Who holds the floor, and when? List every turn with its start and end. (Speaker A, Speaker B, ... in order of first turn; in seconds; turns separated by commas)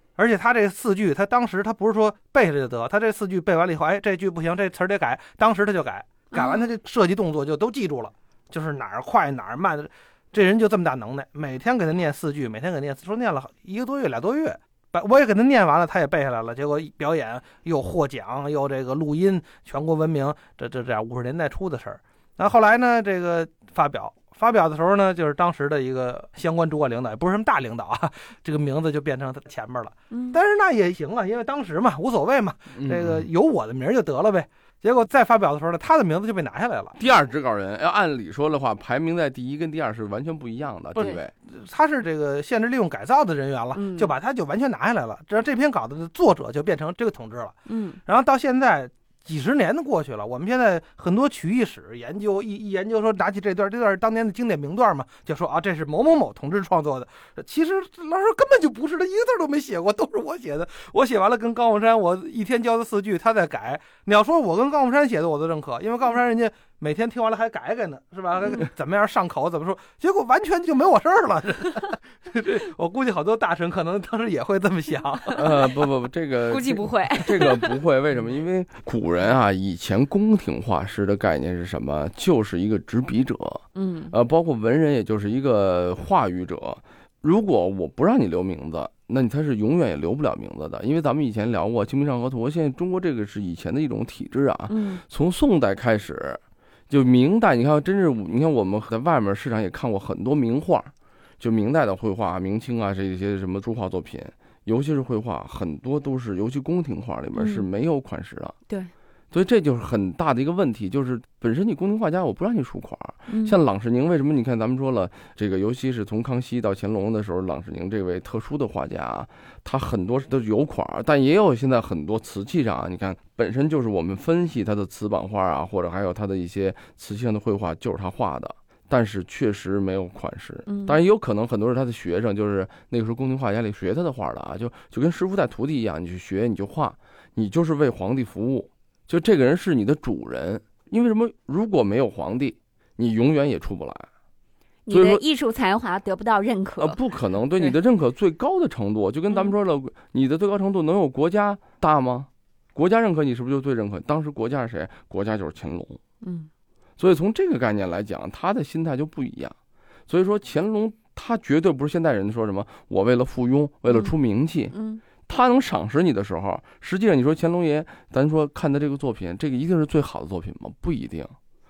Speaker A: 0.2-37.0, Speaker B: 6.3-6.7, Speaker B: 30.1-30.4, Speaker C: 32.7-33.2, Speaker C: 37.0-41.3, Speaker A: 41.0-75.4, Speaker B: 43.8-44.1, Speaker B: 47.7-48.0, Speaker C: 75.4-108.6, Speaker B: 76.5-77.7, Speaker B: 83.8-84.1, Speaker B: 94.7-95.0, Speaker B: 107.3-107.7, Speaker C: 109.3-144.1, Speaker B: 113.3-113.6, Speaker B: 130.7-131.0, Speaker B: 144.9-147.0, Speaker C: 144.9-145.2, Speaker C: 146.8-156.0, Speaker B: 156.2-156.5, Speaker C: 157.0-159.6, Speaker C: 160.1-164.8, Speaker B: 163.9-164.1, Speaker B: 164.7-165.0, Speaker C: 165.3-171.3